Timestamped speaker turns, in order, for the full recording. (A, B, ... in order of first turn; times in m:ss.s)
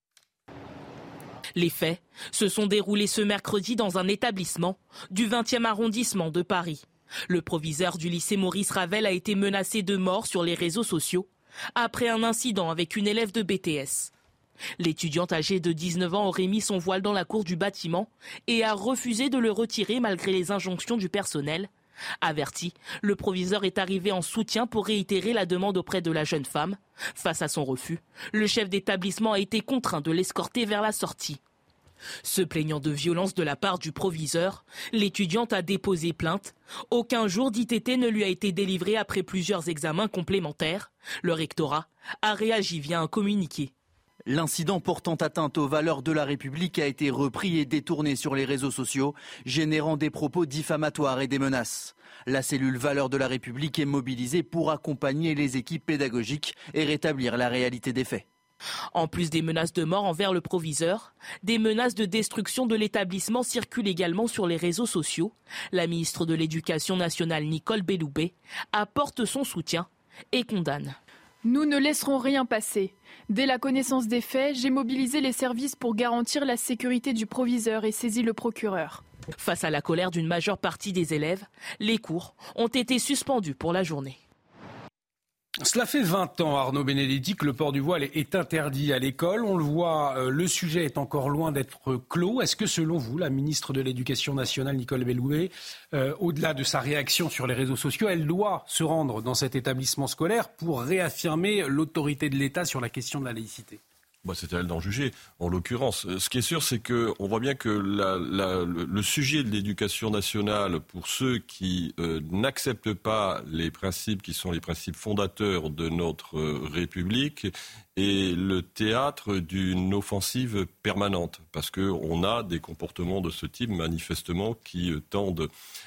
0:01.6-0:14.1 A
0:14.8-0:21.7 A
0:22.2-0:31.4 A
0:32.2-0:43.7 A
0:44.3-0:58.3 B
0:58.9-1:11.0 A
1:11.4-1:19.0 C
1:19.4-1:24.2 A
1:25.6-1:43.8 D
1:44.2-2:05.5 E